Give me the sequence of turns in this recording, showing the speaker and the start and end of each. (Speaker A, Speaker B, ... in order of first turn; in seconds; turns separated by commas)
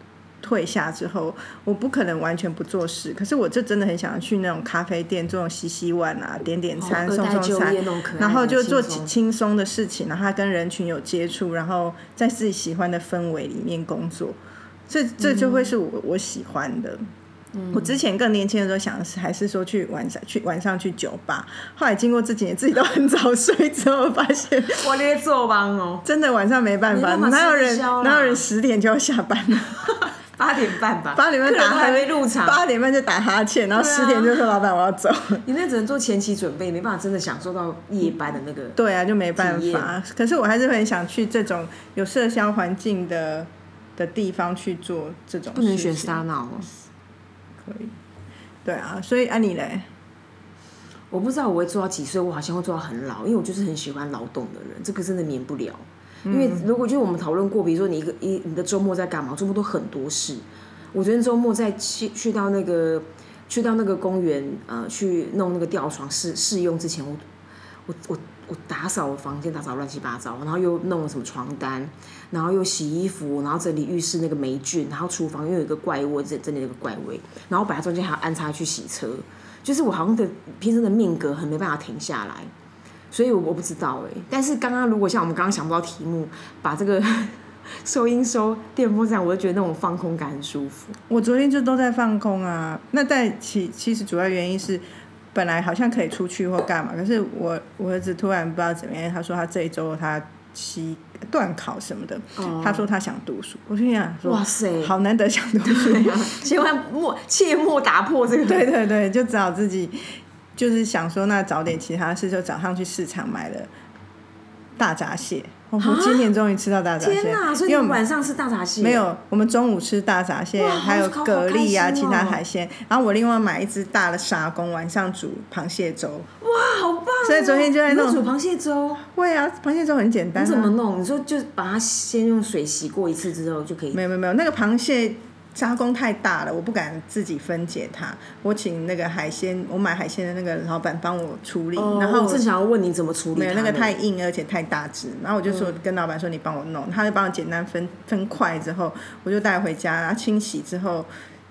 Speaker A: 0.4-17.0, Speaker B: 6.8-9.1, Speaker B: 15.2-15.7, Speaker B: 17.6-18.0, Speaker A: 17.7-24.9, Speaker B: 24.8-26.1, Speaker A: 26.1-29.9, Speaker B: 26.9-28.4, Speaker B: 30.4-32.6, Speaker A: 31.1-35.4, Speaker B: 33.7-34.6, Speaker B: 35.4-38.8, Speaker A: 38.8-46.2, Speaker B: 39.4-39.9, Speaker B: 45.5-46.7, Speaker A: 47.6-48.0, Speaker A: 48.6-49.9, Speaker B: 51.1-67.2, Speaker A: 56.3-56.7, Speaker B: 67.9-82.5, Speaker B: 83.1-91.0, Speaker A: 91.1-94.8, Speaker A: 95.3-106.4, Speaker B: 102.4-102.9, Speaker B: 104.2-104.9, Speaker B: 105.7-108.7, Speaker A: 108.5-113.7, Speaker A: 114.8-118.0, Speaker B: 115.8-116.3, Speaker B: 117.0-119.1, Speaker A: 118.8-126.3, Speaker B: 120.6-122.4, Speaker B: 126.4-129.0, Speaker A: 127.2-128.3, Speaker A: 129.0-130.7, Speaker B: 130.3-134.0, Speaker A: 133.9-142.5, Speaker B: 141.8-144.0, Speaker A: 143.3-151.1, Speaker B: 145.5-145.8